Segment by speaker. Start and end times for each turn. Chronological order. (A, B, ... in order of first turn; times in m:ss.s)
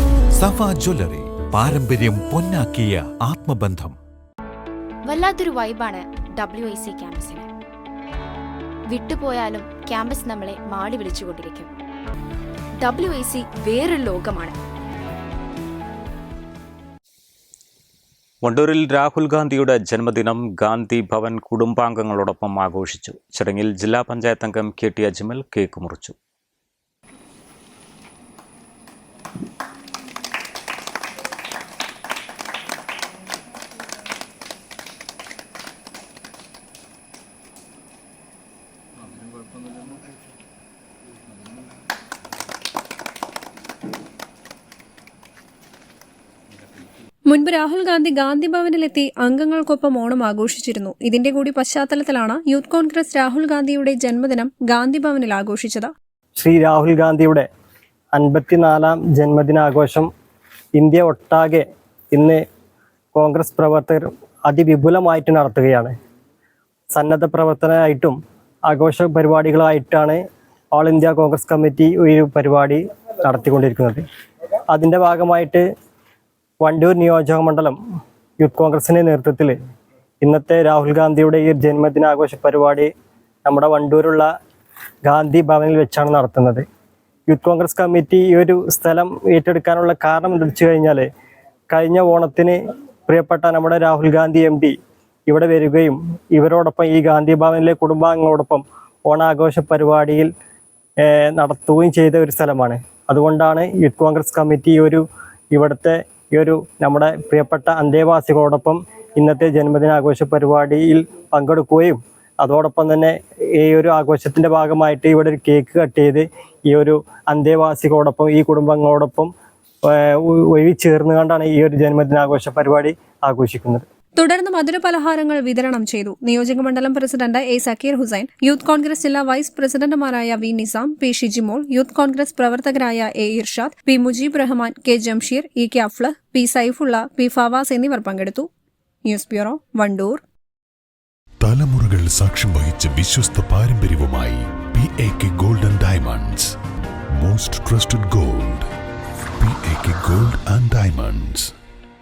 0:00.4-0:04.0 A
0:05.1-0:07.5 B
0:08.9-0:11.7 B
0:12.8-0:14.6 B
0:18.4-0:26.1 C
0:47.3-0:55.9 D
0:56.4-0:57.5 E
0:58.2-1:00.1 E
1:00.8-1:01.6 E
1:03.2-1:05.9 E
1:07.0-1:08.2 E
1:08.7-1:10.2 E
1:10.8-1:14.0 E
1:14.7-1:15.6 E
1:16.6-1:17.8 E
1:18.4-1:19.6 E
1:20.2-1:22.9 E
1:23.5-1:24.3 E
1:25.1-1:26.6 E
1:27.3-1:31.1 E
1:31.7-1:32.6 E
1:33.1-1:34.7 E
1:35.3-1:40.3 E
1:41.1-1:59.3 E
1:59.9-2:03.8 E
2:04.2-2:18.5 D
2:19.1-2:20.2 D
2:21.4-2:26.5 F
2:27.2-2:28.7 F
2:29.4-2:31.5 F